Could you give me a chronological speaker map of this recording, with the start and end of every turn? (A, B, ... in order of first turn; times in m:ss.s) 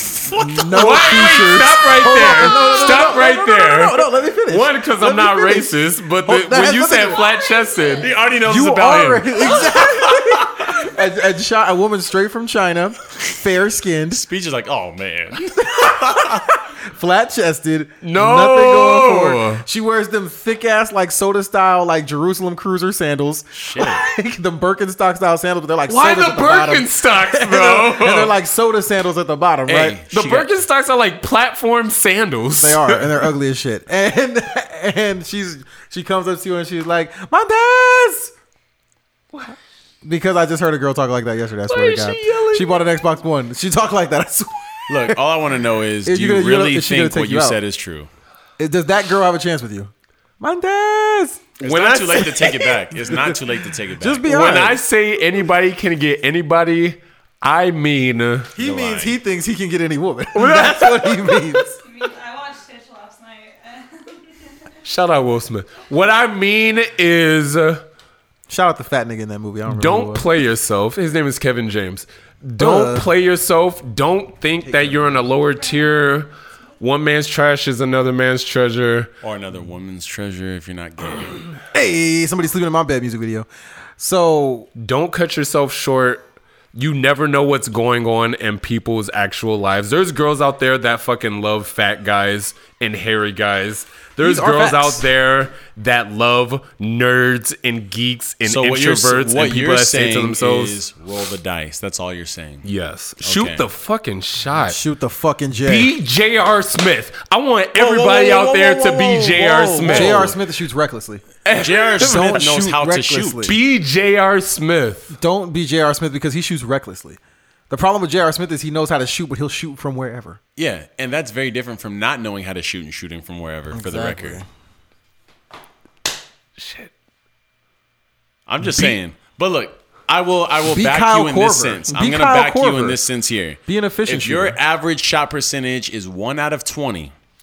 0:00.1-0:00.8 A
0:00.4-0:07.3 B
0:00.7-0:08.1 C
0:08.0-0:09.8 A
0:08.3-0:14.2 B
0:14.1-0:16.4 A
0:15.3-0:30.0 B
0:18.0-0:19.6 C
0:23.5-0:24.0 A
0:25.9-0:28.3 C
0:29.6-0:30.5 A
0:30.1-0:33.1 C
0:32.5-0:38.3 B
0:40.0-0:45.2 B
0:41.6-0:42.7 C
0:44.9-0:48.1 A
0:46.0-0:47.6 B
0:48.6-0:51.4 B
0:51.6-0:52.7 C
0:51.6-0:54.3 A
0:53.1-0:53.4 B
0:54.0-0:54.8 B
0:54.3-0:58.5 C
0:58.6-1:01.8 B
0:58.6-0:59.2 A
1:00.3-1:01.5 C
1:01.8-1:04.5 D
1:04.8-1:07.8 C
1:08.5-1:10.2 B
1:09.7-1:19.1 C
1:12.6-1:13.1 B
1:14.7-1:15.0 B
1:15.7-1:16.0 D
1:19.2-1:21.4 A
1:21.7-1:24.7 B
1:24.8-1:26.2 C
1:26.7-1:40.8 C
1:34.2-1:35.0 B
1:38.4-1:42.7 A
1:42.6-1:44.8 C
1:43.2-1:43.6 A
1:44.5-1:45.9 B
1:45.6-1:50.3 C
1:47.7-1:50.4 A
1:49.8-1:51.3 B
1:51.5-1:53.6 A
1:51.5-1:52.5 C
1:52.0-1:53.5 B
1:53.4-1:55.1 C
1:55.1-1:57.2 B
1:57.7-2:00.4 B
2:00.6-2:04.4 A
2:03.7-2:04.4 B
2:06.6-2:06.9 C
2:08.5-2:17.1 A
2:10.7-2:13.0 B
2:13.7-2:14.6 B